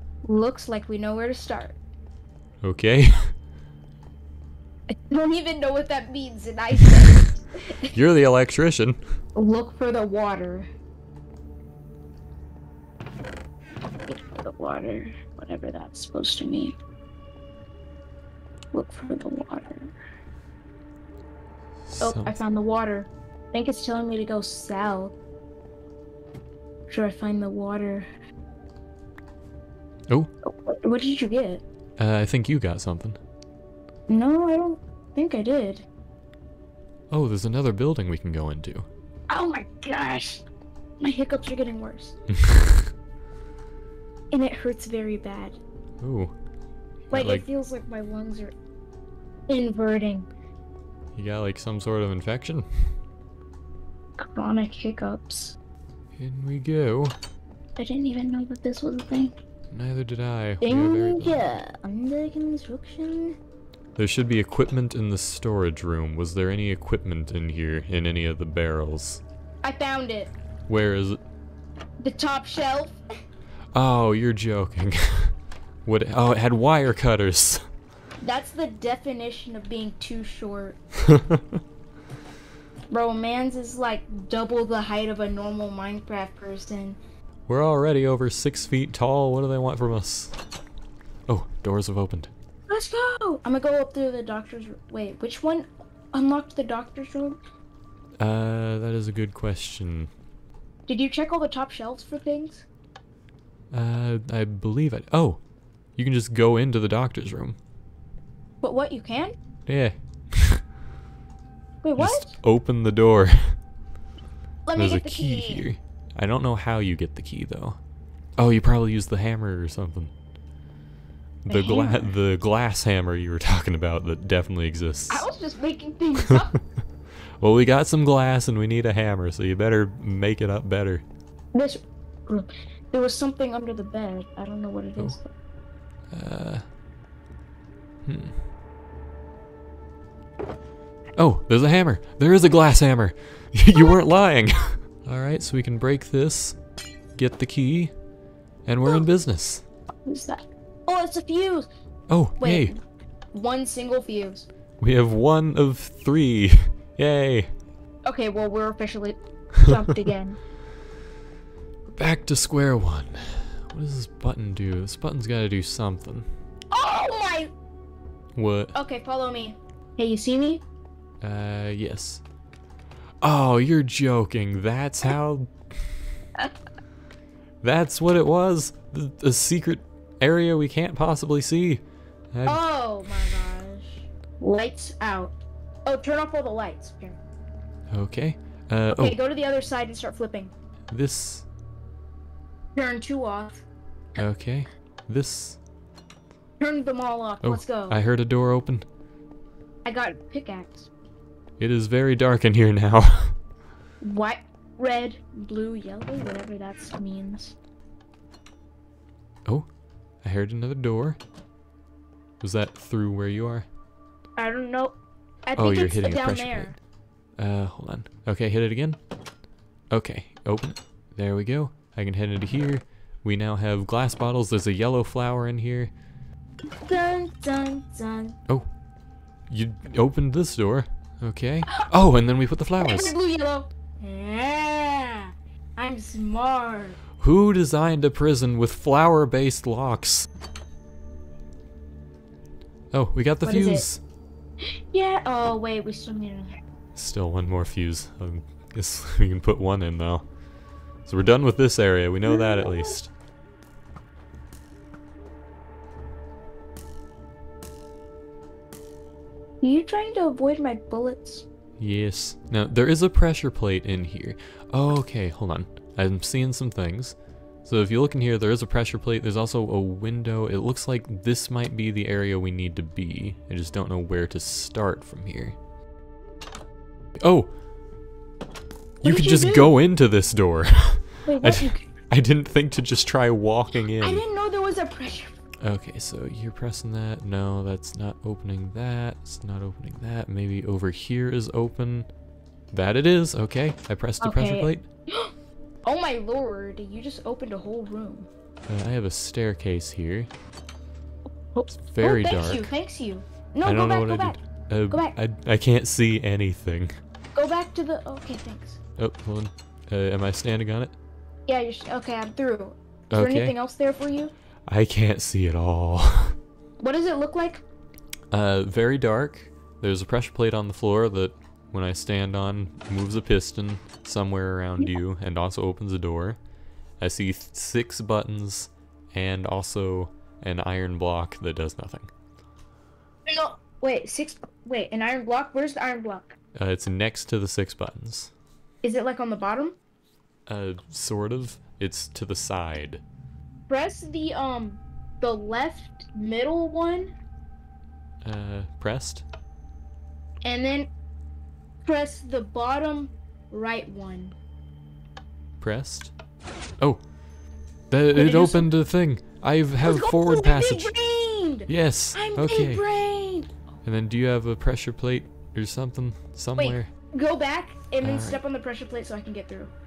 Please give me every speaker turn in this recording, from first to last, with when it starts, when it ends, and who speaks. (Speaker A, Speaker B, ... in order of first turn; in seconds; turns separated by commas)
Speaker A: 0.2-1.8, Speaker B: 2.6-3.3, Speaker A: 4.9-7.9, Speaker B: 7.9-9.0, Speaker A: 9.3-10.7, Speaker A: 14.1-16.8, Speaker A: 18.7-19.9, Speaker B: 21.9-22.4, Speaker A: 22.0-25.1, Speaker A: 26.9-28.1, Speaker A: 30.4-31.6, Speaker B: 32.0-33.2, Speaker A: 34.1-35.9, Speaker B: 37.1-38.9, Speaker A: 39.3-40.5, Speaker A: 41.0-42.2, Speaker B: 42.3-42.9, Speaker A: 44.3-45.6, Speaker B: 46.0-46.3, Speaker B: 47.1-47.5, Speaker A: 47.1-48.5, Speaker A: 49.5-50.3, Speaker B: 51.1-52.7, Speaker A: 54.2-55.6, Speaker B: 56.2-57.2, Speaker A: 57.8-59.4, Speaker B: 59.7-61.5, Speaker A: 60.6-63.4, Speaker B: 64.0-69.2, Speaker A: 69.6-70.3, Speaker B: 70.7-71.2, Speaker A: 72.0-73.0, Speaker B: 73.7-75.3, Speaker B: 75.8-77.6, Speaker A: 78.2-80.8, Speaker B: 81.1-81.6, Speaker A: 82.9-87.0, Speaker B: 87.5-90.4, Speaker B: 91.3-92.3, Speaker A: 92.7-97.4, Speaker B: 98.2-100.1, Speaker A: 100.9-102.7, Speaker B: 103.7-105.4, Speaker B: 106.0-107.6, Speaker A: 108.6-109.3, Speaker B: 109.7-110.6, Speaker A: 111.8-112.3, Speaker B: 112.0-113.6, Speaker A: 114.7-115.7, Speaker B: 114.8-117.8, Speaker B: 118.4-120.1, Speaker B: 121.5-125.3, Speaker A: 121.5-122.1, Speaker A: 125.1-126.6, Speaker B: 127.4-131.0, Speaker A: 131.5-135.3, Speaker B: 136.1-136.6, Speaker B: 138.1-138.4, Speaker B: 141.2-146.6, Speaker B: 147.2-147.9, Speaker B: 148.7-149.6, Speaker A: 150.1-151.7, Speaker B: 152.1-152.8, Speaker A: 152.4-152.8, Speaker A: 153.3-154.5, Speaker B: 154.8-157.5, Speaker A: 158.1-160.4, Speaker B: 162.0-166.3, Speaker A: 166.7-167.5, Speaker B: 168.3-168.8, Speaker A: 168.7-170.6, Speaker B: 171.2-172.2, Speaker B: 173.2-176.0, Speaker B: 177.6-181.8, Speaker B: 182.3-182.6, Speaker A: 182.5-187.2, Speaker B: 187.9-189.2, Speaker A: 188.9-190.5, Speaker B: 190.9-191.5, Speaker A: 192.8-193.6, Speaker B: 194.2-195.6, Speaker A: 196.6-198.0, Speaker B: 197.4-198.8, Speaker A: 199.8-200.9, Speaker B: 201.6-203.4, Speaker A: 204.0-207.6, Speaker B: 210.2-211.2, Speaker B: 212.4-213.7, Speaker A: 214.4-216.8, Speaker B: 215.6-216.8, Speaker B: 217.4-219.0, Speaker B: 219.9-225.9, Speaker A: 226.9-228.4, Speaker B: 229.5-233.2, Speaker A: 232.8-237.0, Speaker B: 237.2-240.3, Speaker B: 242.9-244.0, Speaker A: 243.4-243.9, Speaker A: 244.6-246.6, Speaker B: 247.0-250.2, Speaker B: 251.1-253.1, Speaker A: 252.2-253.0, Speaker A: 259.6-261.5, Speaker B: 261.8-275.6, Speaker B: 277.2-277.5, Speaker B: 279.0-284.2, Speaker A: 279.0-279.8, Speaker A: 281.2-281.9, Speaker A: 284.0-285.4, Speaker B: 285.6-292.1, Speaker B: 292.7-294.9, Speaker A: 294.2-295.3, Speaker A: 295.8-298.3, Speaker B: 298.7-300.3, Speaker A: 301.5-304.4, Speaker B: 301.9-302.7, Speaker B: 303.6-307.0, Speaker A: 304.9-305.2, Speaker A: 307.4-308.8, Speaker B: 309.0-310.9, Speaker A: 311.5-314.3, Speaker B: 313.1-313.6, Speaker B: 314.7-316.4, Speaker A: 316.8-317.6, Speaker B: 318.3-326.4, Speaker B: 327.0-332.1, Speaker A: 333.3-336.4, Speaker B: 336.6-338.3, Speaker A: 338.8-339.8, Speaker B: 340.5-343.0, Speaker A: 343.7-347.1, Speaker B: 348.2-349.2, Speaker A: 350.4-350.9, Speaker A: 351.9-354.4, Speaker B: 355.6-356.1, Speaker B: 357.9-360.9, Speaker A: 358.1-358.7, Speaker A: 359.8-363.5, Speaker B: 361.7-362.9, Speaker B: 363.8-366.9, Speaker A: 366.6-369.7, Speaker B: 368.0-368.4